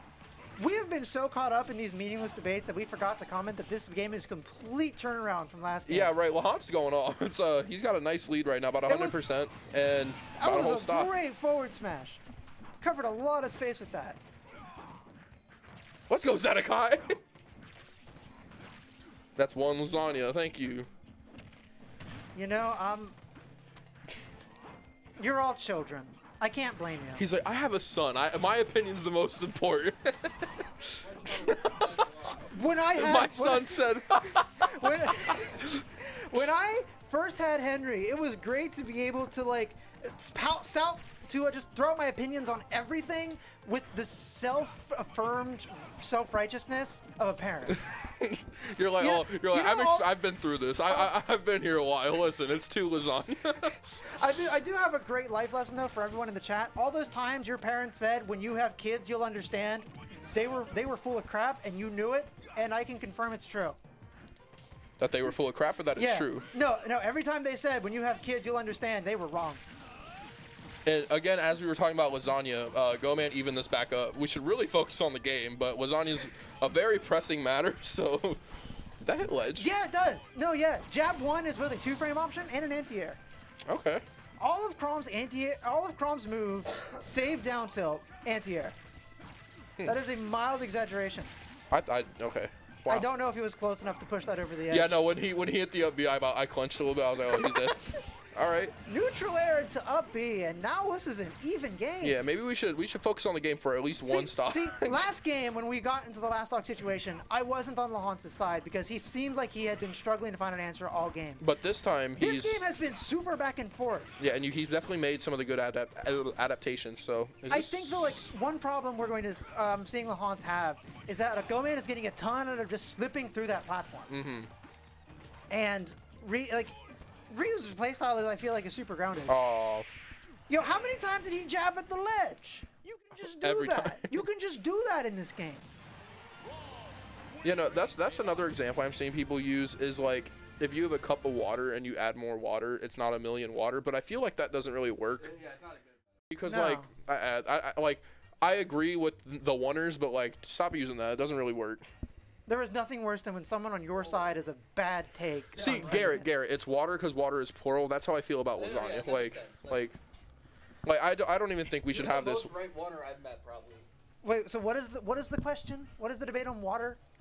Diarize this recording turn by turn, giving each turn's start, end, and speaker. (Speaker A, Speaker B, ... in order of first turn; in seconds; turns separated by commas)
Speaker A: 0.6-6.2, Speaker B: 5.9-11.1, Speaker A: 8.8-9.2, Speaker A: 10.4-12.2, Speaker A: 12.8-14.2, Speaker B: 16.1-17.2, Speaker B: 19.4-20.9, Speaker A: 22.4-23.1, Speaker A: 25.2-27.2, Speaker B: 27.2-35.7, Speaker C: 31.0-32.4, Speaker A: 32.2-47.8, Speaker B: 47.8-54.0, Speaker A: 49.0-50.1, Speaker A: 54.0-63.8, Speaker B: 65.0-66.5, Speaker A: 66.0-69.6, Speaker B: 70.9-79.7, Speaker A: 79.6-83.2, Speaker B: 83.7-84.0, Speaker A: 84.4-88.8, Speaker A: 89.8-91.3, Speaker B: 91.7-93.1, Speaker A: 92.9-95.0, Speaker B: 94.7-98.8, Speaker A: 97.4-97.7, Speaker A: 98.9-102.2, Speaker B: 102.0-105.1, Speaker A: 104.0-111.4, Speaker B: 111.4-112.6, Speaker A: 112.2-114.1, Speaker B: 114.2-118.3, Speaker A: 117.5-124.2, Speaker B: 124.1-124.5, Speaker A: 125.5-126.8, Speaker A: 127.3-129.4, Speaker B: 129.3-129.9, Speaker A: 130.5-135.7, Speaker B: 133.3-134.2, Speaker B: 137.4-145.4, Speaker C: 145.2-146.0, Speaker B: 146.3-151.8, Speaker A: 146.4-146.9, Speaker A: 152.5-156.3, Speaker B: 155.6-160.0, Speaker C: 155.6-156.0, Speaker C: 158.6-159.9, Speaker B: 160.8-162.6, Speaker C: 161.9-163.9, Speaker A: 164.2-167.0